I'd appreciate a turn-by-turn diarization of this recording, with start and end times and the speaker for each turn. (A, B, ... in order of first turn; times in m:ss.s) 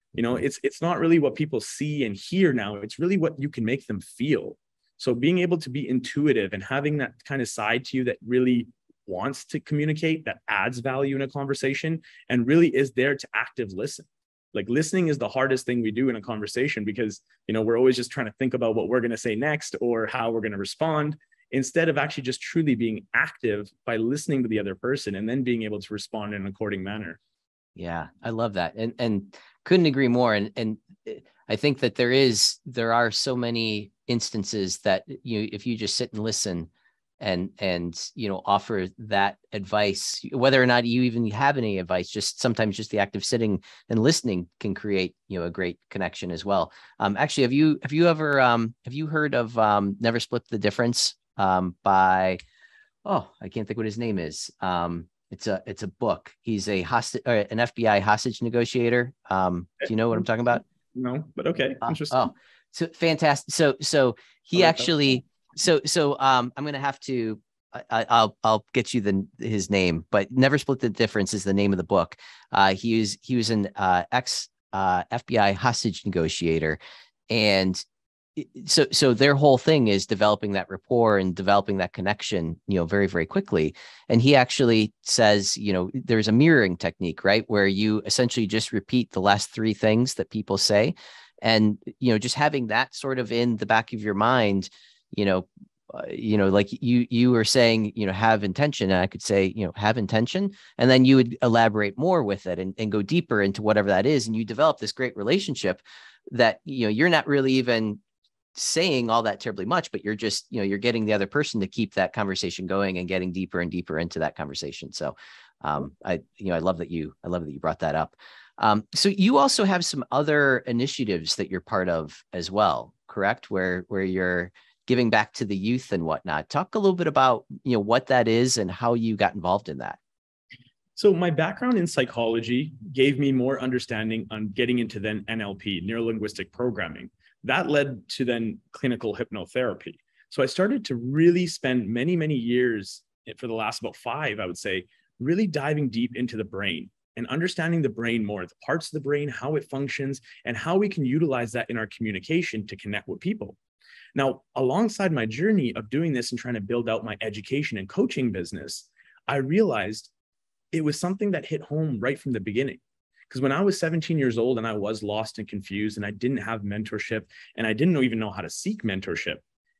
0:00.1-0:27.2 A
0:27.8-0:36.7 B
0:37.2-0:52.4 B
0:53.0-1:00.6 B
1:00.9-1:02.3 A
1:01.8-1:16.8 B
1:04.5-1:05.1 A
1:17.3-1:17.8 B
1:18.4-1:48.0 B
1:48.5-2:10.0 B
2:11.0-2:33.6 A
2:34.1-2:40.1 A
2:40.7-2:49.4 A